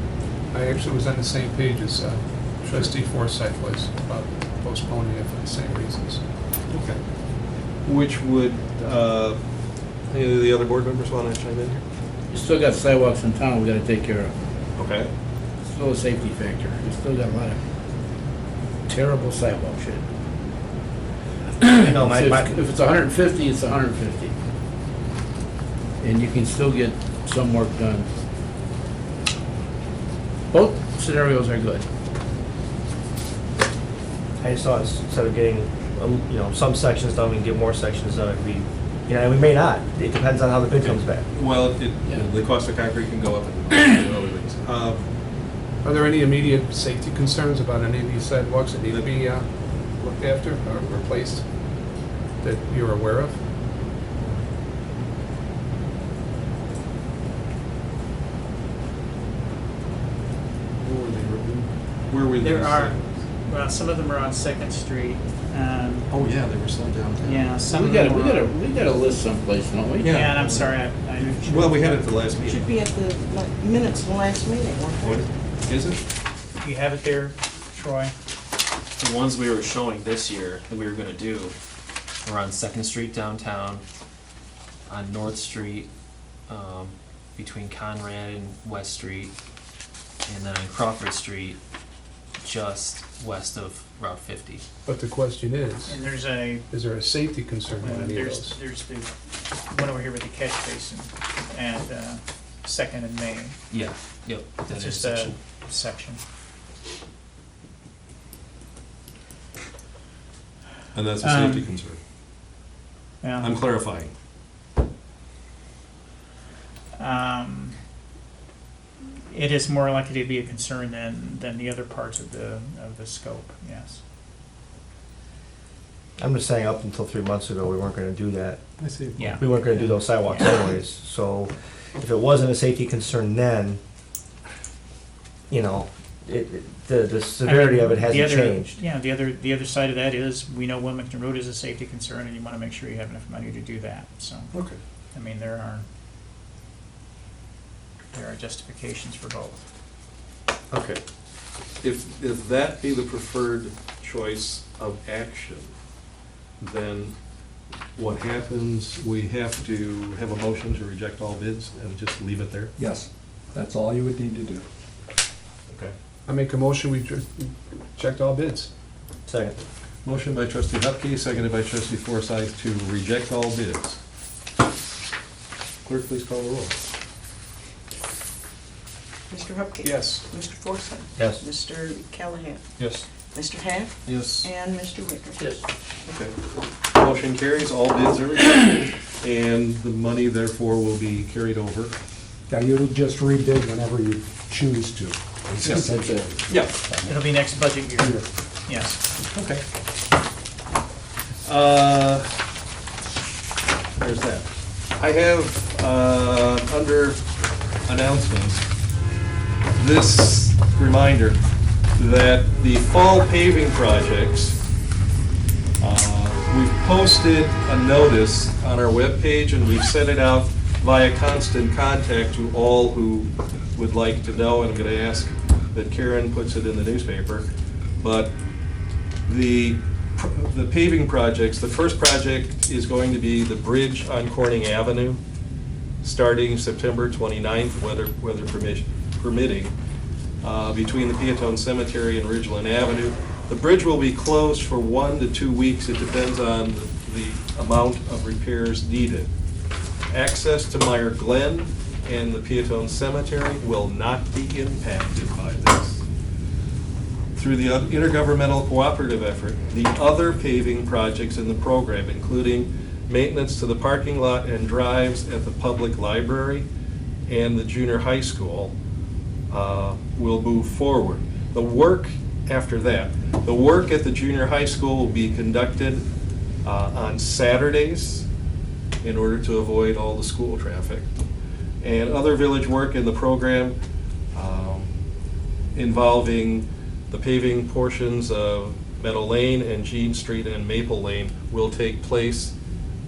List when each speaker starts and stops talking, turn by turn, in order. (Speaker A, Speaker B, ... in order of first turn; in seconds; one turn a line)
Speaker A: 0.5-6.2
Speaker B: 6.7-7.0
Speaker B: 7.9-9.4
Speaker B: 10.1-11.8
Speaker C: 12.3-14.3
Speaker B: 14.8-15.1
Speaker C: 15.6-17.6
Speaker C: 18.9-20.0
Speaker C: 21.6-24.3
Speaker D: 21.8-22.6
Speaker C: 26.0-28.1
Speaker C: 30.5-31.9
Speaker D: 34.4-41.2
Speaker B: 40.8-45.1
Speaker A: 45.8-51.5
Speaker B: 48.9-49.1
Speaker A: 52.4-53.5
Speaker B: 54.2-54.5
Speaker B: 60.8-63.2
Speaker E: 62.4-66.1
Speaker B: 66.1-67.6
Speaker E: 67.2-68.5
Speaker C: 67.7-70.1
Speaker B: 70.0-72.7
Speaker E: 70.1-72.1
Speaker F: 72.4-75.3
Speaker B: 75.0-76.0
Speaker E: 76.6-78.1
Speaker G: 79.0-81.6
Speaker G: 82.2-83.8
Speaker G: 84.9-85.9
Speaker G: 86.5-89.3
Speaker G: 90.2-91.6
Speaker G: 92.4-94.6
Speaker A: 94.9-96.1
Speaker E: 95.9-96.7
Speaker A: 96.7-98.6
Speaker E: 97.8-99.1
Speaker E: 99.7-103.6
Speaker G: 103.7-105.4
Speaker E: 104.7-106.2
Speaker B: 110.9-112.0
Speaker E: 111.2-111.7
Speaker E: 113.2-113.5
Speaker B: 113.4-114.1
Speaker E: 117.0-117.8
Speaker E: 119.3-124.0
Speaker D: 126.2-128.6
Speaker B: 128.8-130.0
Speaker E: 129.2-130.5
Speaker D: 129.2-133.8
Speaker D: 135.5-138.8
Speaker E: 137.4-144.5
Speaker B: 144.5-144.8
Speaker E: 145.1-145.9
Speaker E: 148.1-149.7
Speaker B: 150.7-151.0
Speaker B: 151.8-155.7
Speaker B: 156.6-157.1
Speaker B: 158.0-162.7
Speaker H: 162.8-164.7
Speaker B: 165.7-165.9
Speaker A: 166.3-168.7
Speaker D: 169.3-169.6
Speaker B: 170.0-174.0
Speaker B: 175.8-176.8
Speaker F: 179.3-182.6
Speaker A: 179.8-180.2
Speaker D: 181.2-181.4
Speaker B: 182.8-183.1
Speaker F: 183.3-185.4
Speaker B: 184.1-184.5
Speaker B: 186.1-186.3
Speaker B: 186.9-191.9
Speaker H: 192.5-197.4
Speaker C: 195.8-196.2
Speaker B: 196.5-196.8
Speaker E: 197.1-199.0
Speaker H: 198.0-198.3
Speaker B: 199.3-199.6
Speaker B: 201.4-202.3
Speaker B: 204.0-207.2
Speaker B: 207.9-208.6
Speaker B: 209.8-211.4
Speaker B: 212.0-214.6
Speaker B: 215.8-228.3
Speaker B: 229.3-235.2
Speaker B: 236.0-239.7
Speaker B: 240.4-249.3
Speaker B: 250.1-256.0
Speaker B: 257.4-266.7
Speaker B: 267.3-268.8
Speaker B: 269.5-276.1
Speaker B: 276.6-278.3
Speaker B: 279.0-281.1
Speaker B: 281.8-283.8
Speaker B: 284.3-284.9
Speaker B: 285.8-292.6